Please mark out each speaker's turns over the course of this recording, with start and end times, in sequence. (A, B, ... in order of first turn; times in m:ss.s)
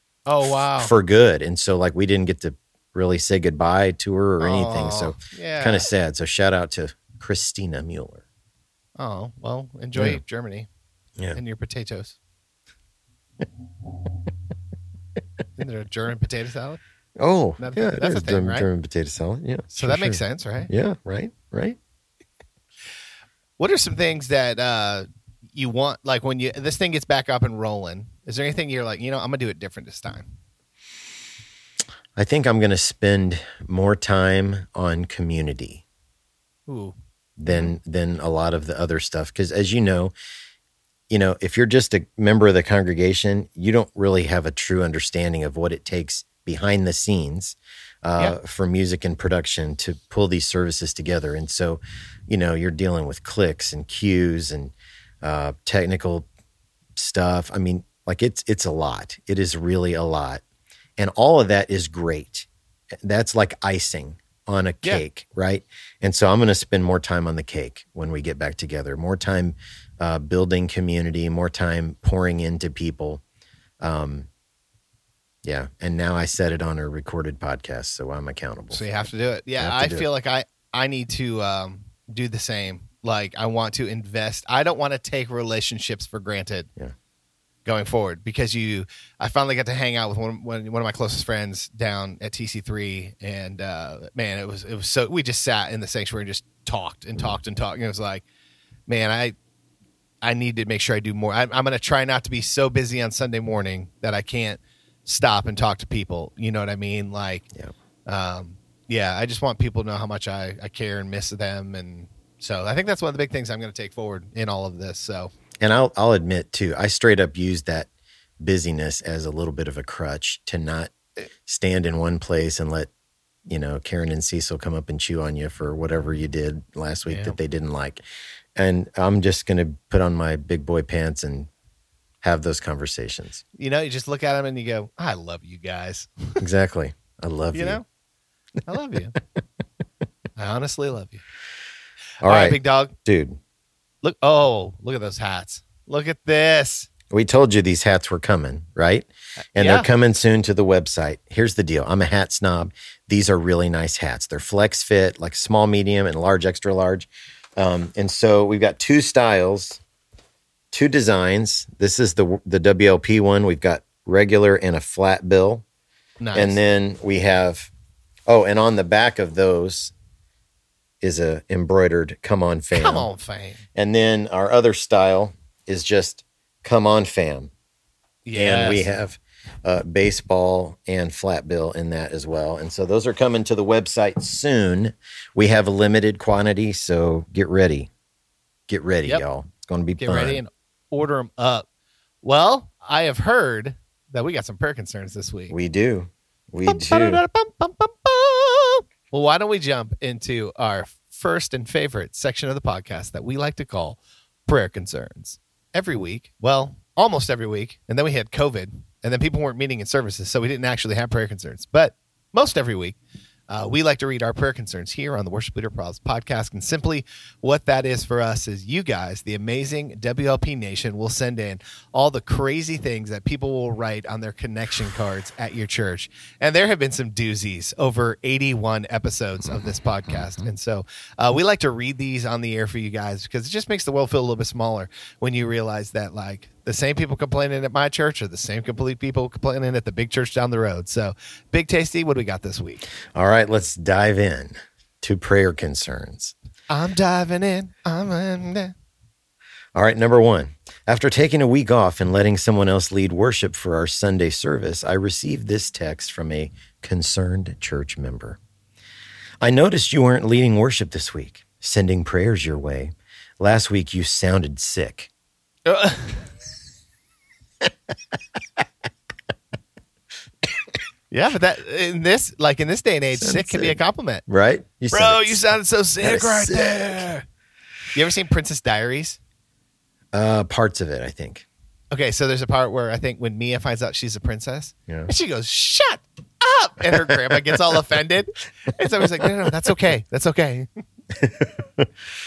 0:00.3-0:00.9 A
0:00.4-0:08.2 B
0:04.4-0:05.9 A
0:09.0-0:10.7 A
0:10.0-0:10.2 B
0:11.3-0:12.2 A
0:15.6-0:16.8 A
0:17.2-0:21.8 B
0:17.6-0:18.7 A
0:19.7-0:20.7 A
0:23.6-0:30.3 A
0:32.2-0:35.8 B
0:36.7-0:37.0 A
0:37.4-0:40.1 B
0:37.5-0:37.7 A
0:41.1-0:56.3 B
0:57.0-1:00.4 B
1:01.0-1:02.5 B
1:03.0-1:13.2 B
1:13.8-1:14.3 B
1:15.4-1:18.9 B
1:18.7-1:26.7 A
1:19.6-1:20.1 B
1:27.6-1:38.2 A
1:38.9-1:39.4 A
1:40.2-1:47.5 A
1:48.1-1:55.3 A
1:55.6-1:57.9 B
1:58.4-2:00.9 B
2:01.5-2:02.9 B
2:03.5-2:08.0 B
2:07.1-2:07.4 A
2:08.6-2:11.5 B
2:12.2-2:13.4 B
2:13.6-2:16.4 A
2:16.4-2:17.8 B
2:17.5-2:17.8 A
2:18.7-2:19.2 A
2:20.4-2:21.2 A
2:22.2-2:22.9 A
2:22.2-2:23.4 B
2:24.0-2:26.9 A
2:27.1-2:39.8 B
2:29.6-2:29.9 A
2:40.7-2:45.6 B
2:46.2-2:46.6 A
2:46.4-2:47.7 B
2:48.3-2:49.9 B
2:51.0-2:53.1 B
2:52.7-2:53.6 A
2:53.8-2:57.5 B
2:58.2-2:58.9 A
2:58.4-3:07.9 B
3:08.7-3:10.4 B
3:10.0-3:11.7 A
3:12.2-3:15.6 A
3:15.5-3:17.2 B
3:16.7-3:33.0 A
3:33.5-4:02.8 A
3:49.5-3:50.5 B
4:03.2-4:06.3 B
4:06.7-4:08.7 A
4:09.8-4:18.4 B
4:19.4-4:25.1 B
4:25.7-4:26.3 A
4:31.1-4:34.2 A
4:33.2-4:35.4 B
4:34.9-4:37.2 A
4:36.0-4:37.1 B
4:37.9-4:39.2 A
4:40.1-4:41.5 B
4:41.9-4:50.7 A
4:46.9-4:47.6 B
4:51.2-4:51.9 B